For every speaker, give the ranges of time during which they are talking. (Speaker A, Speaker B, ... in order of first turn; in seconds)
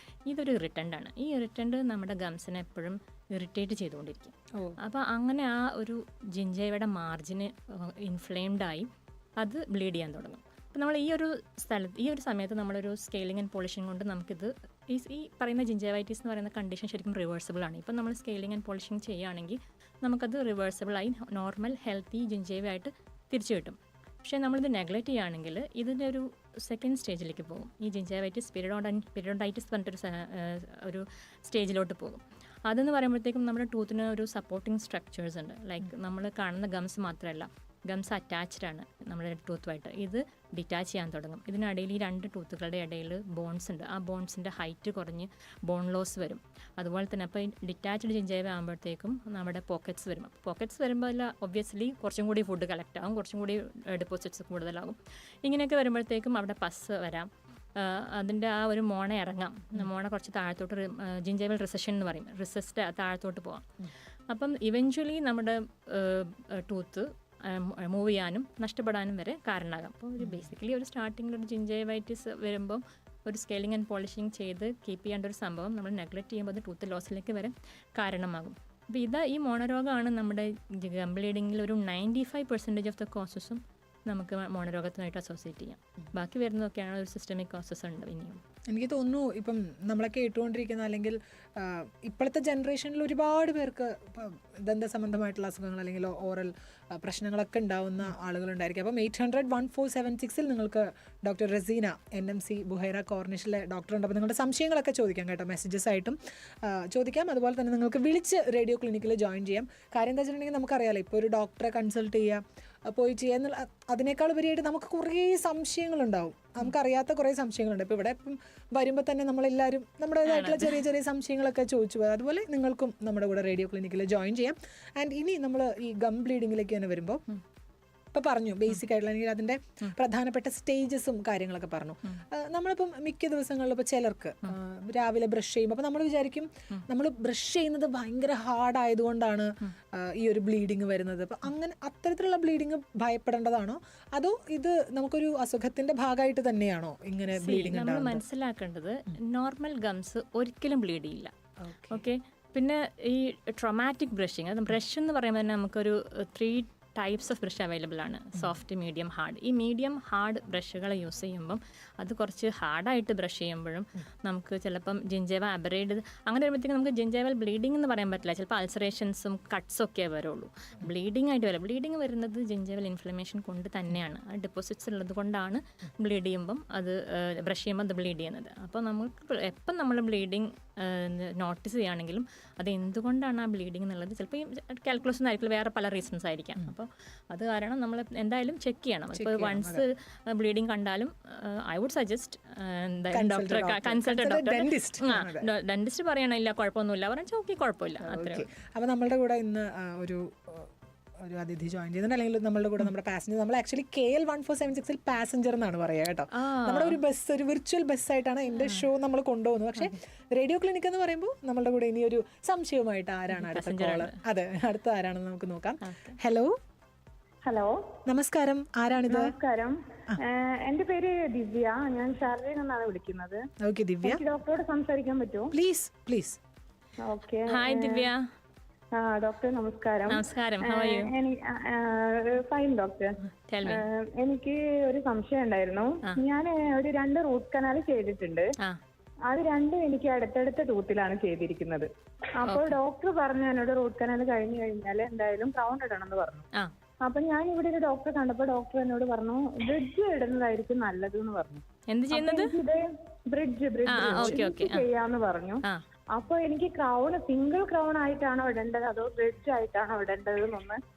Speaker A: 0.3-63.7, 64.3-88.4, 120.2-120.8, 147.4-151.3, 151.9-198.4, 206.3-207.0, 208.6-208.8, 213.3-214.1, 215.8-216.2, 227.5-228.2, 230.1-231.1, 233.5-233.8, 242.4-242.8, 251.9-252.5, 253.8-254.8
Speaker B: 70.2-70.5, 88.7-127.2, 128.1-148.2, 151.6-152.0, 189.1-189.8, 193.1-195.4, 198.0-216.6, 218.1-219.3, 223.6-224.2, 225.5-226.4
Speaker C: 217.4-217.8, 219.0-223.4, 224.0-225.5, 227.0-228.1, 228.9-238.5, 239.3-246.4, 247.0-260.8